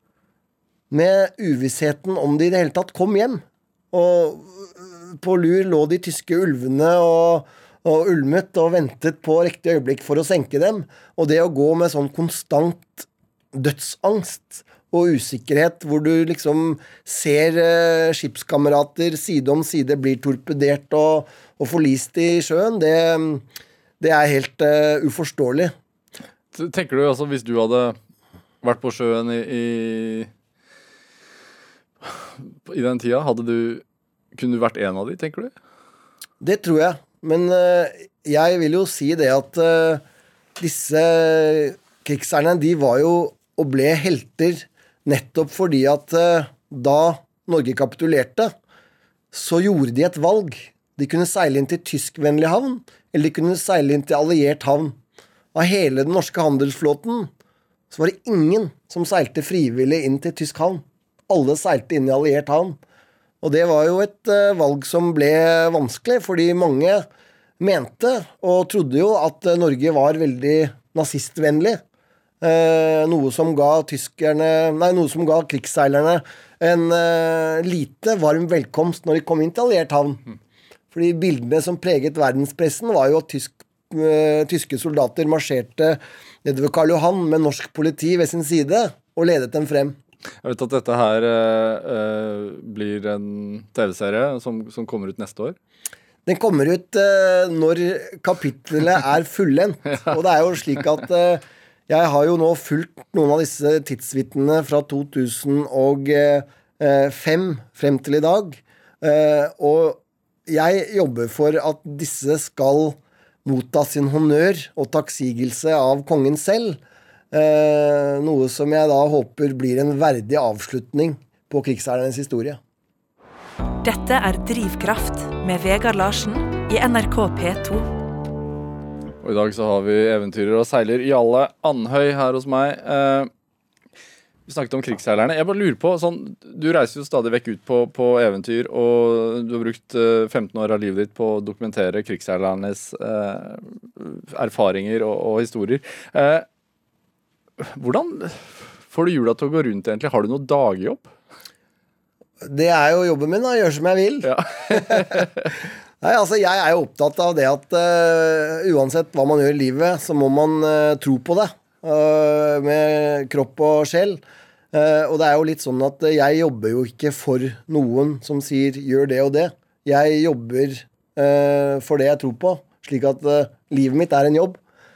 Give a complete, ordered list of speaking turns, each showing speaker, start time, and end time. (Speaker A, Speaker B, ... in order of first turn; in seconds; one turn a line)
Speaker A: 0.9-23.4
Speaker A: 24.0-25.7
Speaker B: 26.5-28.0
Speaker B: 28.6-30.3
Speaker B: 32.0-33.8
Speaker B: 34.3-35.5
Speaker A: 36.4-40.0
Speaker A: 40.6-48.5
Speaker A: 49.3-55.0
Speaker A: 55.5-57.3
Speaker A: 57.9-62.8
Speaker A: 63.4-67.0
Speaker A: 67.6-71.8
Speaker A: 72.4-80.2
Speaker A: 80.9-90.0
Speaker B: 90.4-95.5
Speaker A: 96.2-116.8
Speaker A: 117.3-122.6
Speaker C: 123.8-127.9
Speaker B: 129.2-133.3
Speaker B: 134.5-146.4
Speaker B: 147.6-151.1
Speaker A: 152.4-155.3
Speaker B: 154.2-155.5
Speaker A: 156.0-174.6